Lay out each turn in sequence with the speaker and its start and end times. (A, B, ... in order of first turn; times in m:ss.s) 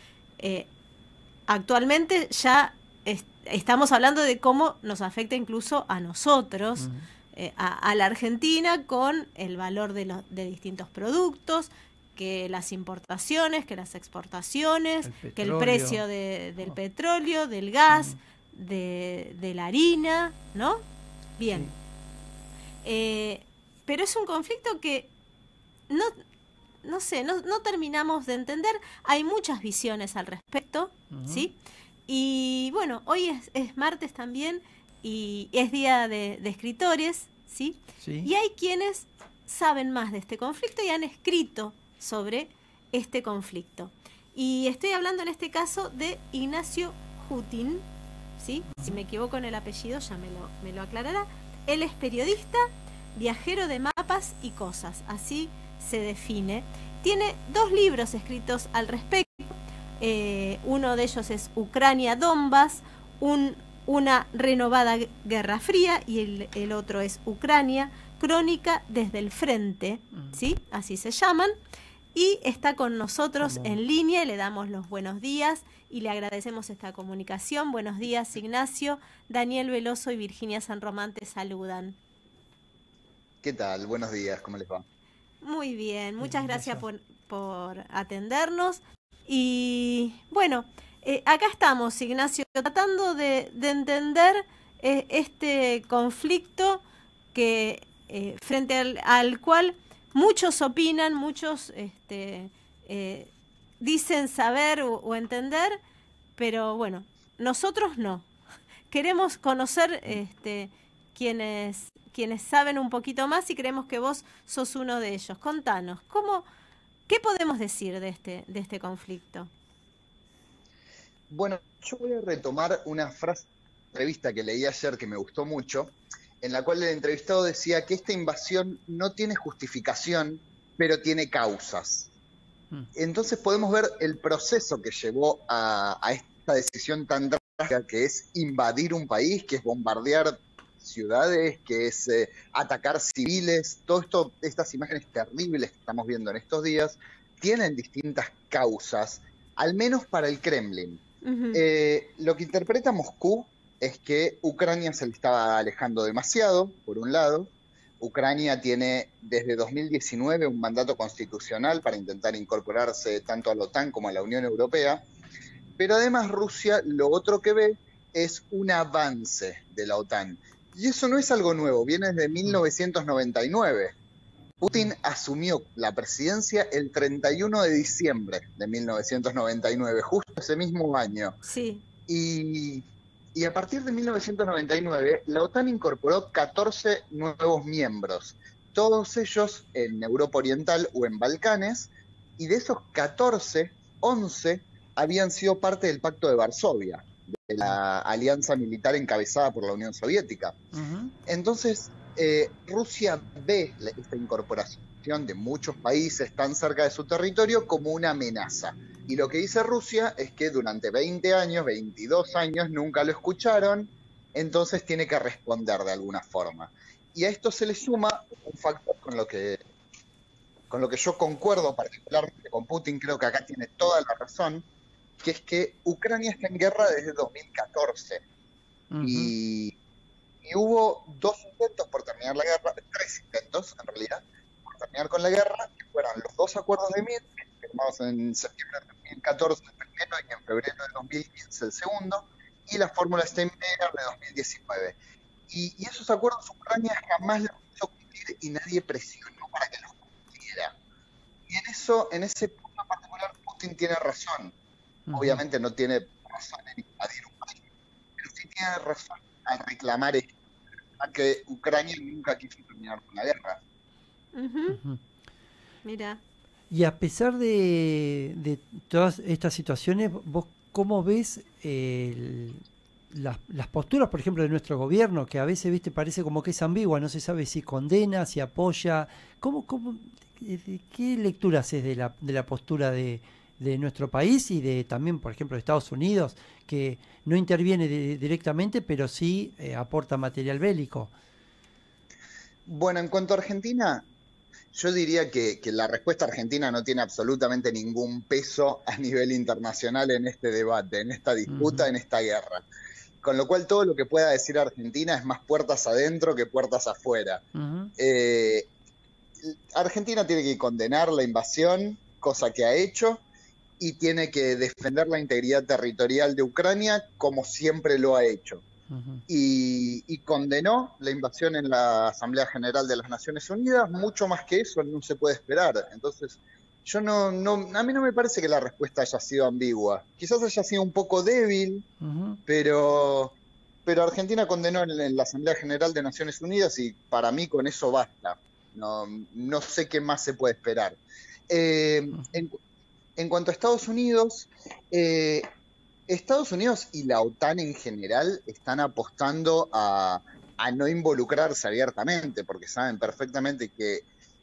0:00.4-0:00.7 A
0:01.5-0:20.8 A
0:15.0-0:16.0 B
0:17.9-0:18.2 B
0:21.4-0:21.7 A
0:22.8-0:25.1 A
0:25.9-0:26.2 A
0:26.8-0:31.6 A
0:31.1-0:31.5 B
0:32.1-0:47.8 A
0:38.0-0:38.3 B
0:48.4-1:11.5 A
0:48.7-0:49.0 B
1:12.1-1:22.0 A
1:13.4-1:13.8 B
1:23.4-1:24.8 C
1:25.4-1:36.8 A
1:26.2-1:26.8 B
1:37.3-1:45.8 A
1:46.4-1:48.3 A
1:48.9-1:56.4 A
1:57.1-1:59.5 A
2:01.3-2:12.1 C
2:12.9-2:31.0 C
2:31.2-2:31.6 A
2:31.5-2:45.0 C
2:45.8-2:53.9 C
2:54.6-3:01.4 C
3:01.4-3:01.8 A
3:02.1-3:20.6 C
3:20.7-3:21.1 B
3:21.3-3:39.6 C
3:40.7-3:44.7 C
3:45.2-3:48.2 C
3:48.9-3:49.3 B
3:49.0-3:49.8 C
3:50.4-4:05.0 C
4:05.5-4:10.8 C
4:11.5-4:14.5 C
4:15.1-4:15.4 B
4:15.1-4:17.6 C
4:18.2-4:20.3 C
4:21.0-4:23.6 C
4:24.3-4:24.8 A
4:24.7-4:25.0 B
4:25.8-4:26.2 A
4:26.7-4:51.1 B
4:52.6-4:54.0 C
4:54.7-5:02.6 C
5:01.5-5:01.9 B
5:03.2-5:07.4 C
5:07.5-5:07.9 B
5:08.0-5:08.7 C
5:09.4-5:13.2 C
5:13.8-5:18.6 C
5:18.9-5:19.2 B
5:19.3-5:31.8 C
5:32.0-5:32.4 B
5:32.5-5:42.6 C
5:43.2-5:45.4 C
5:46.1-5:54.0 C